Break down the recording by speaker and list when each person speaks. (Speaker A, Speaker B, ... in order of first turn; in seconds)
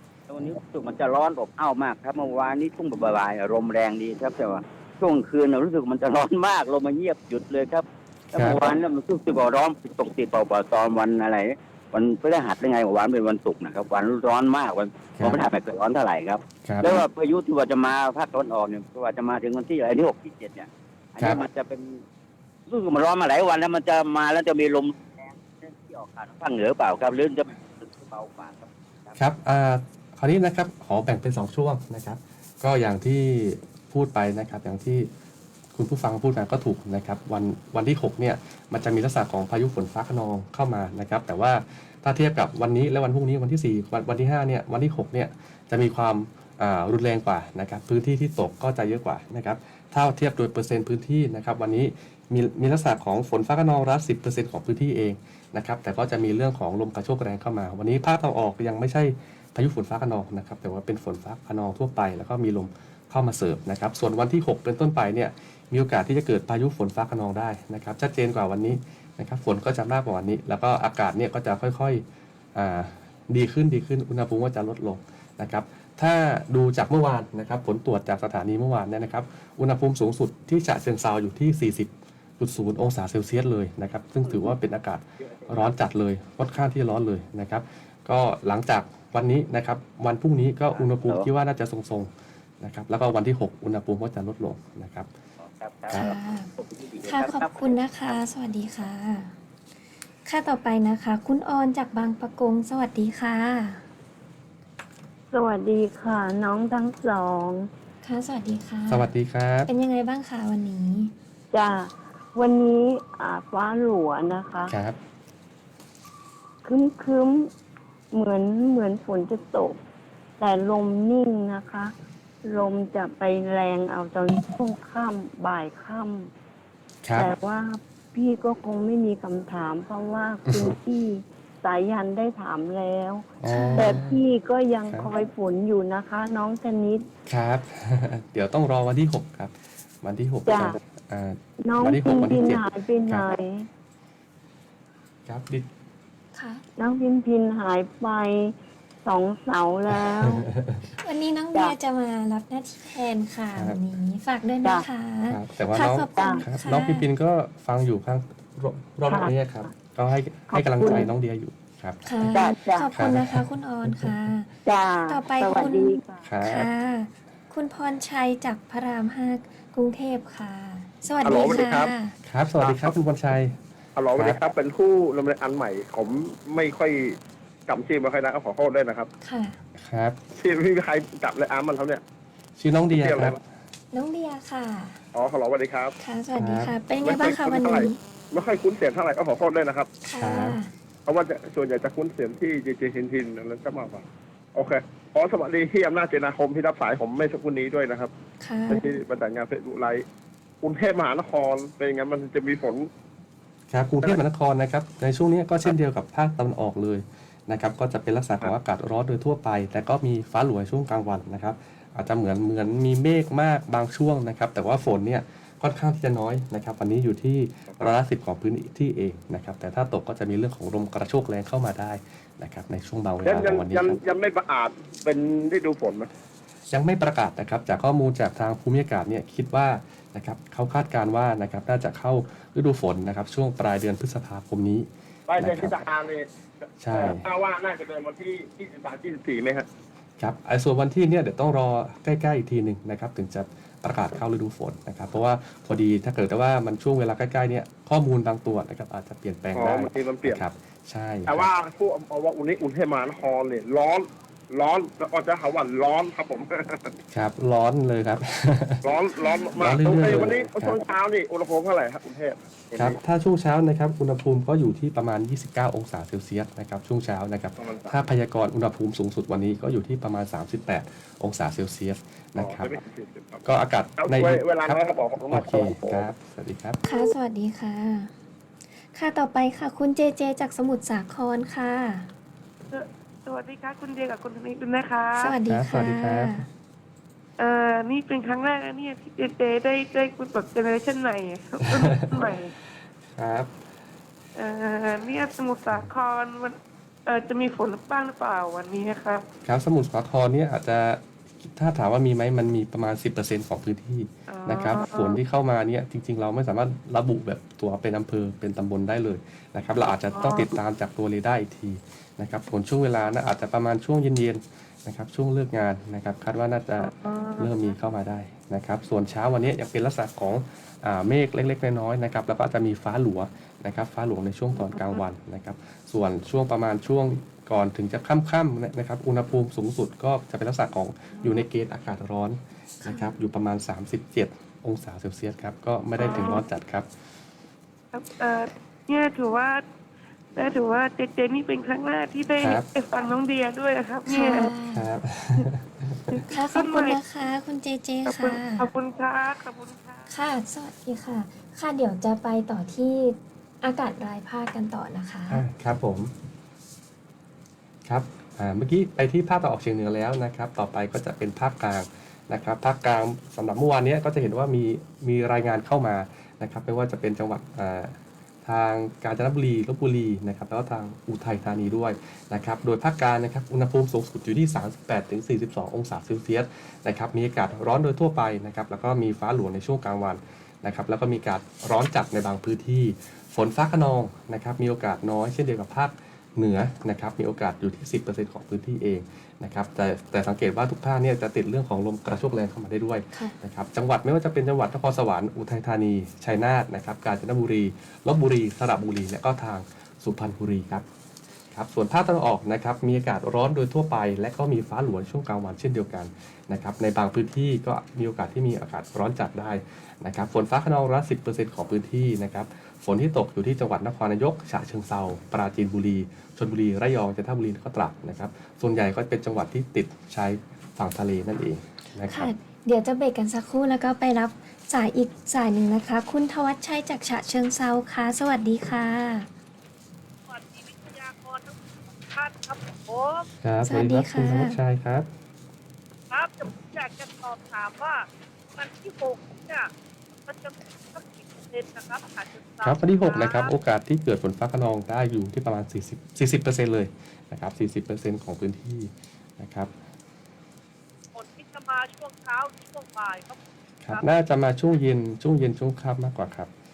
Speaker A: 0.3-22.0, 22.7-29.1, 90.8-91.3, 95.4-97.7
Speaker B: 8.3-8.6, 15.2-15.4, 16.6-17.0, 21.2-21.4, 29.2-35.1, 35.7-72.0, 72.5-95.1, 95.9-96.1, 108.9-109.7, 114.7-115.0, 127.0-127.3, 130.5-130.8, 133.4-134.2, 137.3-143.2, 145.3-145.7, 149.9-150.9, 153.5-153.8, 155.2-164.1, 166.2-166.7, 172.2-173.6, 174.1-174.4, 179.8-180.2, 182.6-183.4, 186.3-186.7, 190.2-190.6, 203.7-224.0, 226.7-235.8, 236.8-237.3, 240.2-251.5, 257.1-258.8, 259.6-260.8, 262.8-272.8, 273.4-276.8, 285.5-286.5, 291.7-292.3, 293.0-293.5, 299.4-336.9, 342.4-342.6, 344.7-346.2, 355.3-356.1, 357.8-400.8, 401.5-422.3, 433.4-435.1, 442.6-449.7, 453.8-456.5
Speaker C: 95.9-96.5, 97.0-99.3, 100.2-103.8, 108.0-109.1, 109.7-111.1, 133.5-134.0, 146.3-146.6, 151.0-157.1, 162.0-164.5, 165.1-172.1, 179.2-179.6, 183.9-185.0, 186.0-188.0, 190.0-190.7, 198.4-198.8, 259.2-259.6, 276.8-278.1, 278.8-282.1, 285.1-286.5, 344.1-344.9, 346.3-348.7, 350.1-355.4, 422.1-429.3, 433.6-434.6
Speaker D: 105.3-107.7, 111.5-114.8, 116.6-117.5, 118.1-119.8, 120.4-121.9, 122.4-126.3, 127.1-137.1, 140.4-140.8, 141.7-143.7, 146.8-150.5, 156.1-156.4, 159.0-159.7, 160.5-161.1, 162.3-162.9, 164.6-166.2
Speaker E: 171.2-171.9, 172.6-172.9, 173.9-179.1, 180.3-182.0, 182.9-183.4, 185.1-185.9, 187.0-189.9, 191.1-194.0, 194.5-198.1, 198.7-200.0, 200.6-202.9, 223.2-226.1, 235.3-236.3, 236.9-239.7, 249.6-250.4, 251.3-256.9, 258.8-263.0, 267.6-267.9, 272.4-273.4, 274.0-276.1
Speaker F: 282.7-285.4, 287.4-292.5, 294.4-299.2, 304.3-305.2, 310.1-310.5, 316.9-317.5, 324.7-324.9, 336.0-336.5, 337.9-339.6, 340.4-344.5, 346.1-347.0, 348.1-350.1, 430.3-433.3, 436.1-439.7, 440.2-443.5, 451.1-453.4